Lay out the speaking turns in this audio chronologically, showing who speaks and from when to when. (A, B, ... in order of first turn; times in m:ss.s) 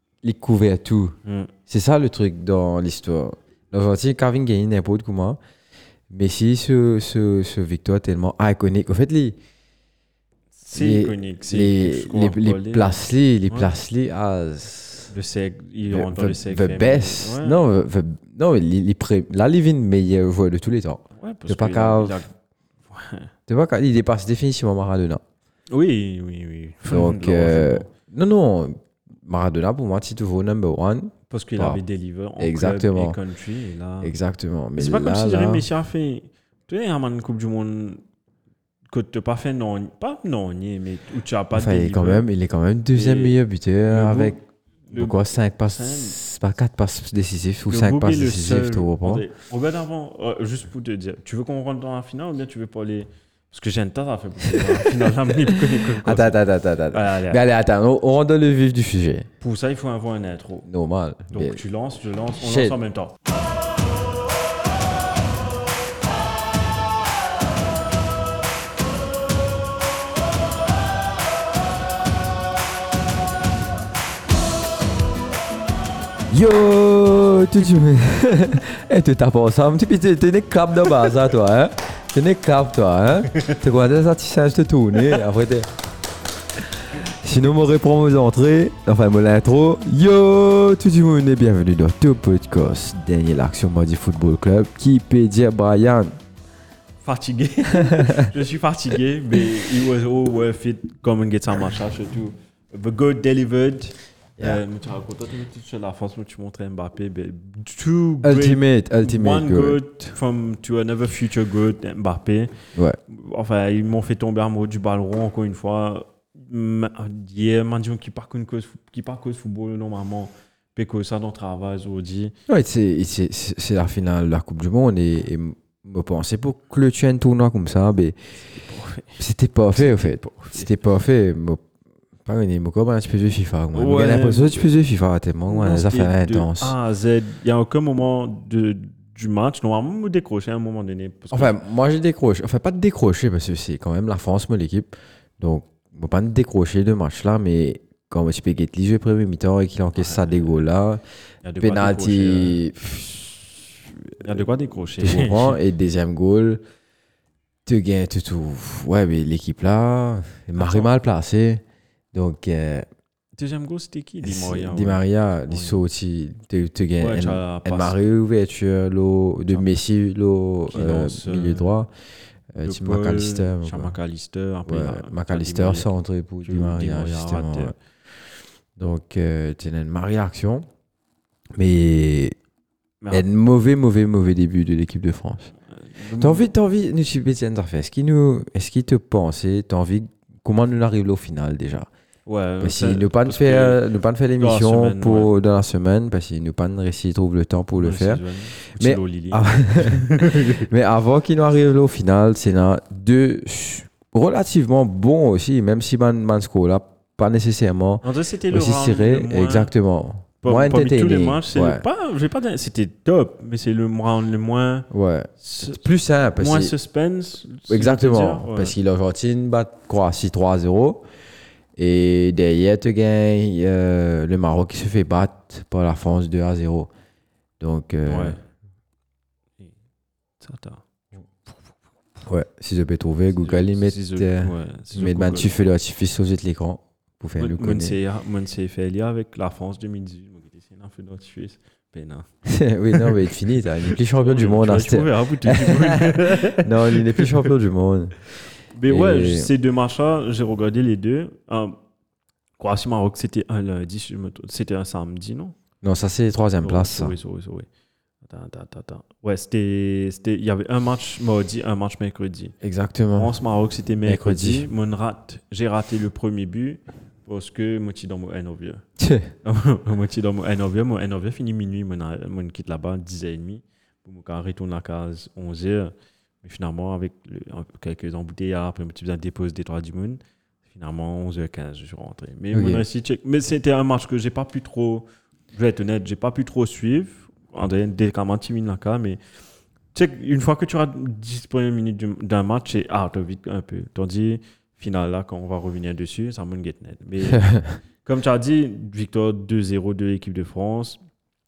0:00.2-0:01.2 A
0:01.3-0:01.5 B
0:01.7-0:05.4 A
0:06.1-0:09.4 A
0:10.6-0:13.0 B
0:10.7-0:15.1 A
0:15.1-0:17.6 B
0:15.9-0:22.2 A
0:21.2-0:22.3 B
0:22.9-0:23.3 B
0:23.5-0:25.2 A
0:25.7-0:27.9 B
0:26.9-0:31.8 A
0:31.3-0:34.1 B
0:32.4-0:33.2 A
0:34.0-0:35.7 A
0:34.8-0:38.0 B
0:38.9-0:42.3 B
0:41.5-0:44.4 A
0:42.9-0:46.2 B
0:44.9-0:49.2 A
0:47.7-0:56.4 B
0:54.5-0:54.9 A
0:55.5-0:59.3 A
0:56.9-0:57.4 B
0:59.4-1:00.7 B
1:00.7-1:01.6 A
1:01.3-1:03.2 B
1:02.4-1:02.8 A
1:16.3-1:25.7 A
1:23.3-1:23.6 B
1:26.9-1:36.1 A
1:37.0-1:52.5 B
1:37.7-1:38.3 A
1:48.2-1:49.8 A
1:53.1-2:02.3 B
2:02.5-2:08.1 A
2:08.5-2:09.2 B
2:09.2-2:11.6 A
2:09.7-2:10.7 B
2:12.2-2:16.8 A
2:13.7-2:14.8 B
2:15.5-2:21.6 B
2:21.3-2:31.0 A
2:29.9-2:30.6 B
2:31.4-2:32.6 B
2:31.6-2:34.4 A
2:34.2-2:35.6 B
2:35.0-2:36.6 A
2:37.6-2:41.6 A
2:40.6-2:40.9 B
2:42.1-2:42.9 A
2:43.4-2:45.8 B
2:44.2-2:51.9 A
2:47.0-2:48.0 B
2:50.7-2:51.7 B
2:52.6-2:53.9 A
2:52.6-2:55.9 B
2:54.6-2:57.8 A
2:56.4-2:57.8 B
2:58.8-3:00.7 A
3:01.6-3:02.4 A
3:03.0-3:03.3 B
3:03.1-3:05.5 A
3:05.8-3:06.5 B
3:06.2-3:11.9 A
3:12.3-3:13.8 B
3:12.6-3:18.2 A
3:14.4-3:15.3 B
3:17.8-3:20.7 B
3:18.7-3:31.8 A
3:28.0-3:29.7 B
3:30.4-3:34.9 B
3:34.9-3:36.7 A
3:35.4-3:38.8 B
3:37.7-3:41.0 A
3:41.8-3:46.9 A
3:47.6-3:48.4 A
3:48.0-3:48.4 B
3:50.4-3:50.9 B
3:51.4-3:51.7 B
3:52.2-3:58.0 A
3:53.4-3:55.5 B
3:57.4-4:02.3 B
4:02.5-4:08.2 A
4:02.9-4:07.5 B
4:08.8-4:11.8 B
4:08.9-4:09.5 A
4:12.6-4:15.6 B
4:15.8-4:17.2 A
4:16.6-4:17.7 B
4:18.2-4:22.6 B
4:22.6-4:23.3 A
4:23.2-4:28.8 B
4:24.0-4:24.7 A
4:29.0-4:29.3 A
4:29.4-4:49.2 B
4:42.5-4:42.8 A
4:49.9-5:01.0 B
4:57.3-4:57.7 A